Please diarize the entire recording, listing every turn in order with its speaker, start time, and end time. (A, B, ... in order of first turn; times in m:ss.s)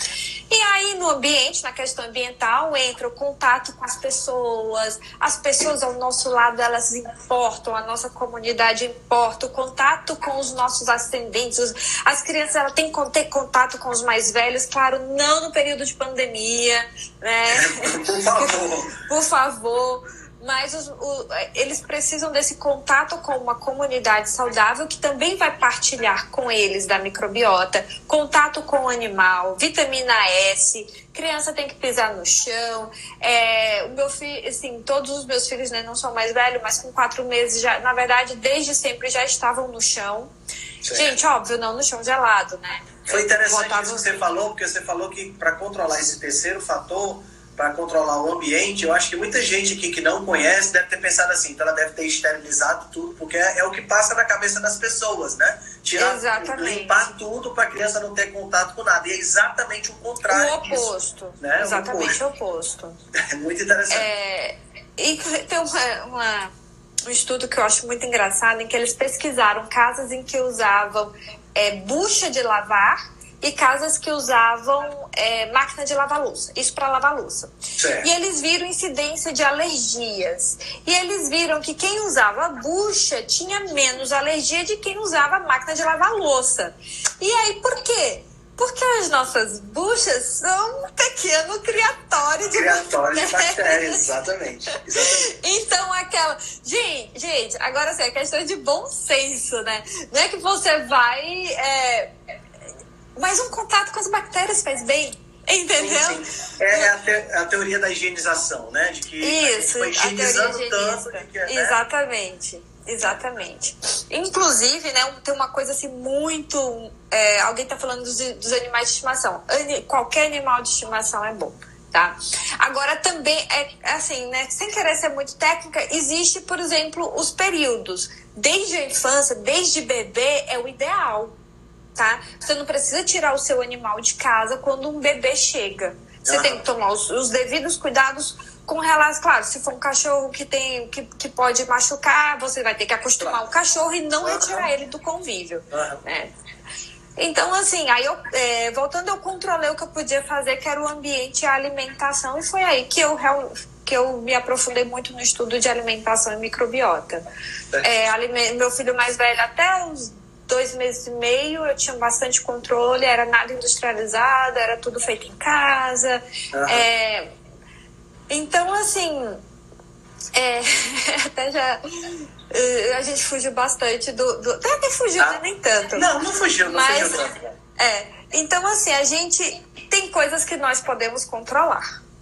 0:00.5-0:40.3 A
0:17.5-0:18.9 B
0:40.8-0:41.2 B
0:40.9-0:44.2 A
0:43.1-1:02.2 B
0:56.0-0:57.1 A
1:00.3-1:03.0 A
1:03.2-1:04.1 B
1:03.9-1:06.5 A
1:07.0-1:34.0 A
1:17.8-1:18.1 B
1:32.5-1:35.3 B
1:35.0-1:42.1 A
1:43.2-1:46.9 A
1:45.8-1:51.8 B
1:49.2-2:11.4 A
2:12.0-2:26.3 A
2:16.3-2:16.6 B
2:24.2-2:24.7 B
2:25.7-2:26.0 B
2:27.2-2:37.2 A
2:37.7-2:38.1 B
2:37.8-2:47.3 A
2:46.5-2:46.8 B
2:48.3-2:49.4 A
2:50.3-2:56.1 A
2:55.9-2:57.6 B
2:56.6-3:02.0 A